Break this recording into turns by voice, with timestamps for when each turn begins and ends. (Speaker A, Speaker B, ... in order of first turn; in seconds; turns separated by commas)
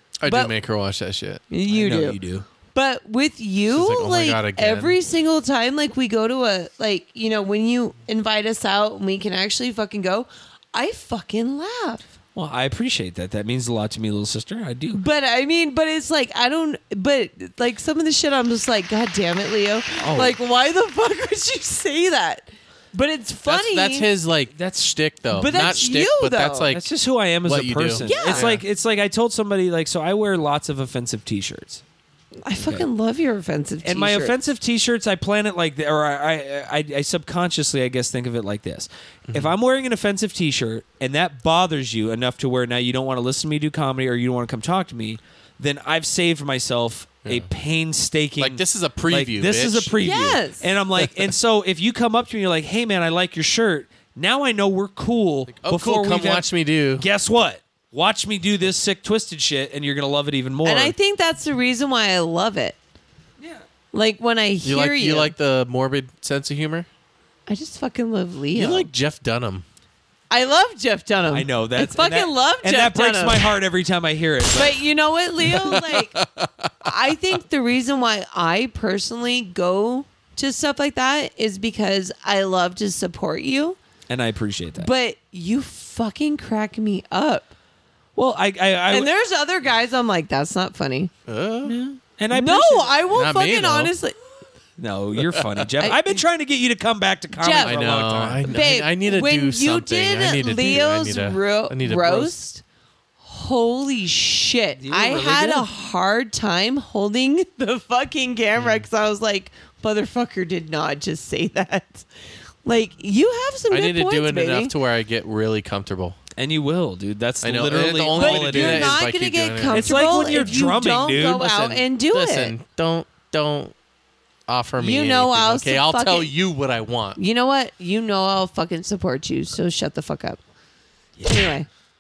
Speaker A: 0.2-1.4, Speaker B: 0.3-0.6, Speaker B: 1.5-2.2, Speaker C: 1.7-2.5, Speaker B: 2.7-12.1, Speaker A: 3.7-5.0, Speaker C: 12.3-15.0, Speaker B: 14.9-24.1, Speaker C: 20.0-20.4, Speaker A: 23.4-26.9, Speaker C: 24.6-25.9, Speaker B: 25.3-26.7, Speaker C: 26.7-31.8, Speaker A: 27.4-28.6, Speaker B: 28.0-28.4, Speaker B: 32.4-34.3, Speaker C: 32.6-32.9, Speaker C: 33.8-56.5, Speaker A: 39.3-39.5, Speaker A: 48.4-50.1, Speaker B: 50.0-50.7, Speaker A: 55.5-57.0, Speaker C: 57.0-60.9, Speaker B: 60.6-62.8, Speaker B: 63.9-65.3, Speaker A: 64.6-66.9, Speaker B: 67.5-68.9, Speaker A: 68.5-69.6, Speaker B: 70.3-73.5, Speaker C: 71.3-74.8, Speaker B: 74.5-76.2, Speaker A: 75.4-76.9, Speaker B: 76.8-83.8, Speaker C: 84.1-84.9, Speaker B: 84.8-87.5, Speaker C: 88.2-89.1, Speaker B: 88.9-91.1, Speaker A: 91.3-91.8, Speaker C: 91.6-93.0, Speaker B: 92.3-94.2, Speaker A: 93.1-93.9, Speaker C: 94.8-98.5, Speaker A: 95.2-95.6, Speaker B: 95.8-96.2, Speaker B: 97.3-97.8, Speaker A: 97.6-102.4, Speaker B: 98.5-102.6, Speaker B: 103.2-112.1, Speaker C: 104.8-105.7, Speaker A: 108.5-108.8, Speaker B: 112.6-114.7, Speaker A: 113.7-116.2, Speaker C: 116.4-119.0, Speaker A: 117.4-120.6, Speaker B: 118.1-122.5, Speaker C: 119.7-121.8, Speaker A: 122.1-123.7, Speaker A: 124.5-127.2, Speaker B: 124.8-126.3, Speaker B: 127.2-130.4, Speaker C: 131.2-131.5, Speaker B: 131.2-131.7